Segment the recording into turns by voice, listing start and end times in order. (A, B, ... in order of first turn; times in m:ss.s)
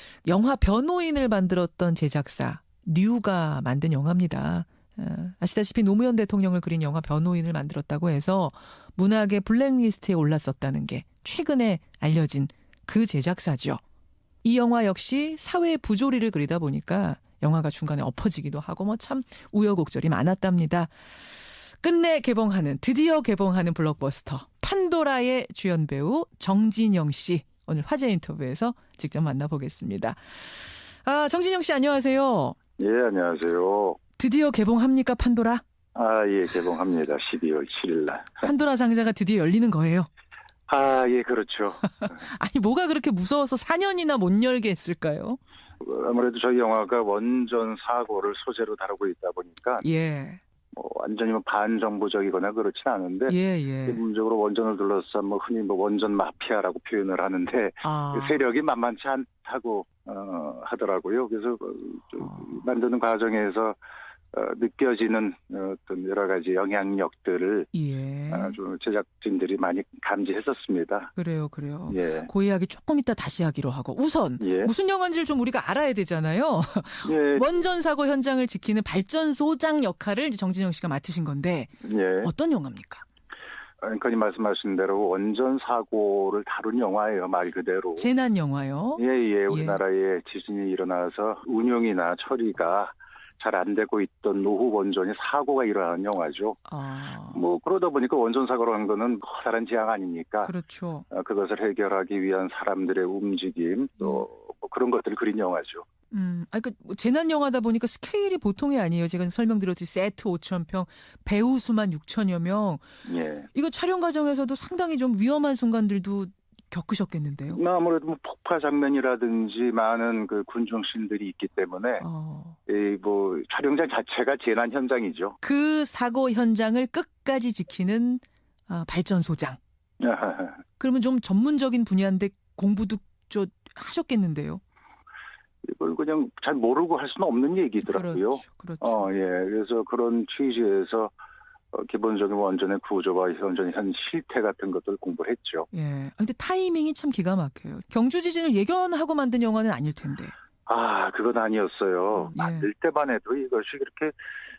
0:00.2-0:13.8 A
0:14.4-0:20.9 A
0:21.8-0:30.2 A
0:31.0-0:32.6 A
0:32.8-0:34.0 B
0:34.2-0:35.6 A
0:36.0-0:38.5 B
0:38.4-0:40.1 A
0:40.7-0:41.9 B
0:41.9-0:45.4 A
0:45.8-0:49.8 B
0:49.8-0:50.4 A
0:50.7-1:03.8 B
0:53.3-0:54.0 A
0:57.8-0:58.4 A
1:04.3-1:07.7 B
1:07.7-1:08.6 A
1:08.3-1:11.1 B
1:11.2-1:21.7 A
1:11.9-1:12.3 B
1:14.4-1:14.7 B
1:17.0-1:17.6 B
1:21.8-1:22.3 B
1:22.2-1:23.0 A
1:23.8-1:28.1 B
1:28.0-1:29.8 A
1:29.0-1:36.6 B
1:36.7-1:37.4 A
1:37.3-1:40.5 B
1:40.4-1:41.0 A
1:41.1-1:45.9 B
1:44.0-1:44.3 A
1:46.1-1:52.8 A
1:53.1-1:53.5 B
1:53.5-1:57.6 A
1:57.6-2:02.0 B
2:02.0-2:02.6 A
2:02.7-2:05.4 B
2:05.4-2:09.6 A
2:10.0-2:10.6 B
2:10.8-2:14.6 A
2:15.6-2:21.1 B
2:17.8-2:19.1 A
2:21.7-2:25.7 B
2:25.7-2:30.4 A
2:30.7-2:34.1 B
2:32.2-2:32.7 A